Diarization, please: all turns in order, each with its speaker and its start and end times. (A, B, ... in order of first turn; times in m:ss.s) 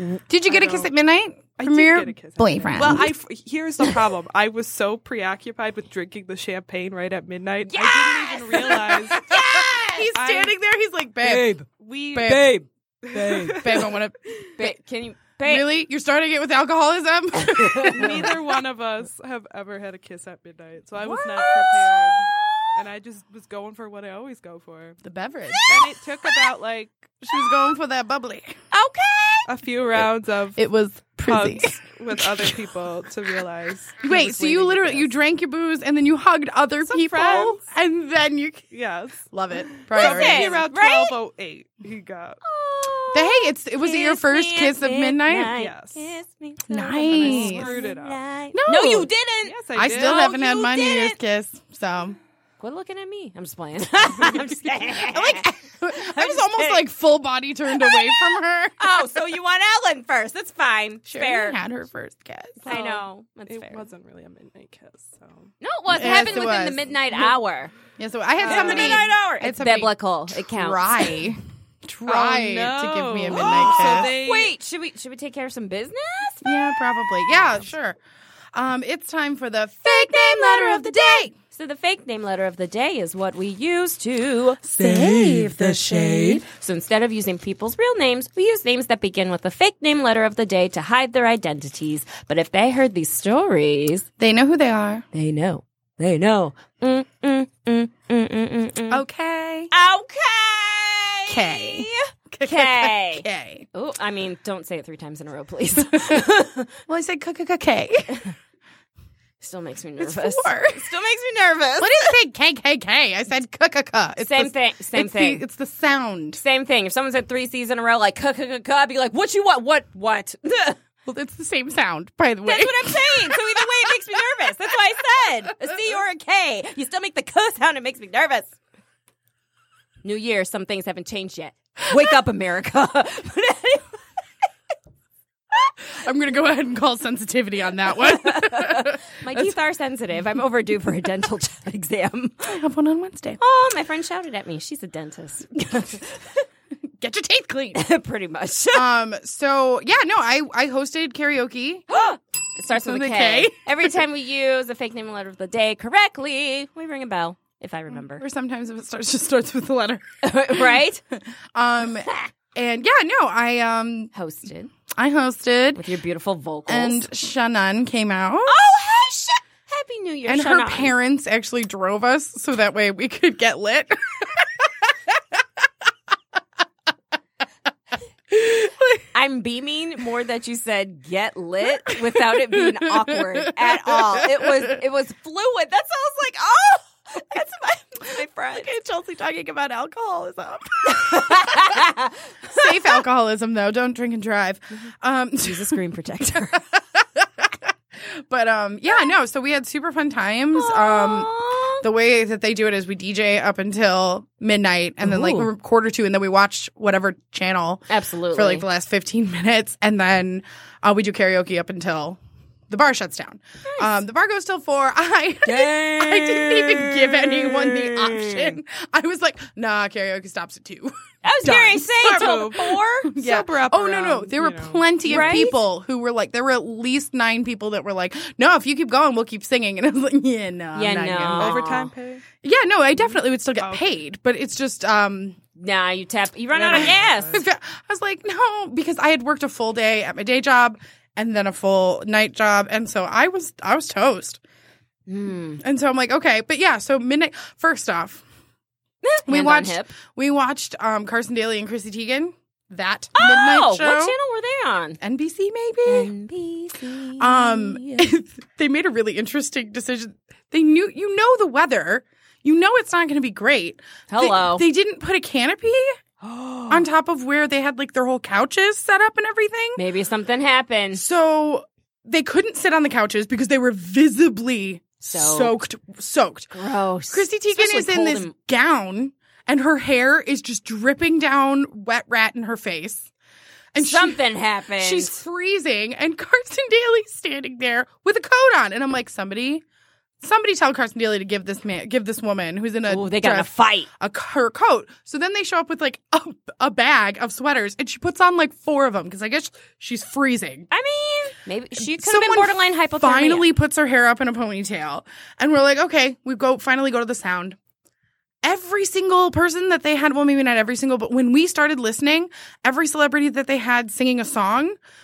0:00.3-0:03.1 A
0:00.5-0:00.9 B
0:01.6-0:09.3 B
0:07.6-0:10.0 C
0:08.9-0:11.5 A
0:10.1-0:10.5 B
0:11.2-0:13.6 C
0:11.7-0:12.5 B
0:12.1-0:12.5 A
0:13.0-0:14.5 B
0:13.3-0:14.7 A
0:14.6-0:15.7 C
0:15.4-0:18.4 A
0:17.6-0:18.2 C
0:17.8-0:25.0 B
0:21.1-0:22.6 C
0:25.0-0:25.9 A
0:25.5-0:26.3 C
0:25.7-0:26.9 B
0:27.2-0:28.6 A
0:28.7-0:29.5 C
0:29.5-0:30.6 B
0:30.6-0:32.6 A
0:31.3-0:35.1 B
0:34.0-0:38.7 A
0:36.9-0:37.6 B
0:38.7-0:42.4 B
0:39.3-0:40.6 A
0:39.9-0:41.2 C
0:42.4-0:51.2 C
0:43.1-0:45.6 A
0:45.6-0:46.1 B
0:46.7-0:47.7 A
0:47.1-0:48.2 B
0:48.5-0:49.1 A
0:49.4-0:50.4 B
0:49.8-0:52.2 A
0:52.6-0:56.8 C
0:54.2-0:58.8 A
0:57.7-1:01.6 C
1:01.1-1:02.7 A
1:02.6-1:05.5 B
1:02.7-1:03.8 C
1:05.6-1:07.7 C
1:05.9-1:06.9 A
1:08.0-1:14.1 A
1:08.4-1:09.1 B
1:08.5-1:11.2 C
1:12.1-1:14.5 B
1:13.3-1:17.5 C
1:16.4-1:18.0 A
1:18.5-1:21.3 A
1:19.8-1:34.1 C
1:24.6-1:26.4 A
1:34.2-1:35.0 A
1:35.1-1:39.0 C
1:38.9-1:39.7 A
1:39.7-1:46.7 C
1:41.3-1:43.7 A
1:45.8-1:46.3 A
1:46.9-1:48.3 A
1:49.4-1:52.2 C
1:50.0-1:50.9 A
1:51.8-1:56.4 A
1:54.2-1:55.4 C
1:56.4-2:00.8 C
2:01.1-2:03.7 A
2:02.4-2:08.6 C
2:10.0-2:13.9 C
2:11.8-2:12.2 A
2:15.8-2:19.5 A
2:17.9-2:22.6 C
2:22.4-2:23.4 A
2:23.4-2:26.4 C
2:27.0-2:27.8 A
2:27.8-2:28.8 C
2:28.7-2:31.9 A
2:31.9-2:38.2 C
2:32.7-2:34.0 A
2:38.1-2:44.1 A
2:40.2-2:41.0 C
2:44.1-2:44.7 C
2:45.0-2:45.8 A
2:45.8-2:47.0 C
2:46.7-2:48.6 A
2:48.5-2:50.9 C
2:50.3-2:55.4 A
2:58.3-2:59.0 A
2:59.1-3:08.7 C
3:01.9-3:04.8 A
3:08.6-3:11.9 A
3:10.8-3:13.0 C
3:12.5-3:40.9 A
3:15.4-3:16.6 C
3:20.6-3:21.8 C
3:25.0-3:25.5 C
3:27.9-3:28.6 C
3:33.7-3:34.0 C
3:35.4-3:38.6 C
3:41.2-3:43.1 C
3:41.4-3:45.5 B
3:43.1-3:51.8 A
3:45.1-3:45.6 C
3:50.8-3:51.9 C
3:51.4-3:52.3 B
3:52.4-3:55.4 A
3:53.0-3:54.0 B
3:55.6-3:57.4 C
3:56.5-3:57.4 B
3:56.7-4:04.4 A
4:05.1-4:05.6 C
4:05.6-4:08.2 A
4:09.0-4:09.9 C
4:09.3-4:14.2 A
4:13.2-4:15.0 C
4:15.0-4:16.1 A
4:15.9-4:18.1 C
4:17.2-4:26.0 A
4:24.1-4:24.6 C
4:26.2-4:26.8 C
4:26.7-4:29.8 A
4:29.8-4:31.0 C
4:30.9-4:36.5 A
4:35.0-4:35.5 C
4:36.5-4:38.3 C
4:37.1-4:43.1 A
4:43.7-4:44.2 A
4:43.8-4:45.2 C
4:44.8-4:49.6 A
4:50.2-5:00.7 A
4:52.9-4:53.9 C
5:00.7-5:03.5 C
5:01.8-5:07.6 A
5:08.4-5:14.8 A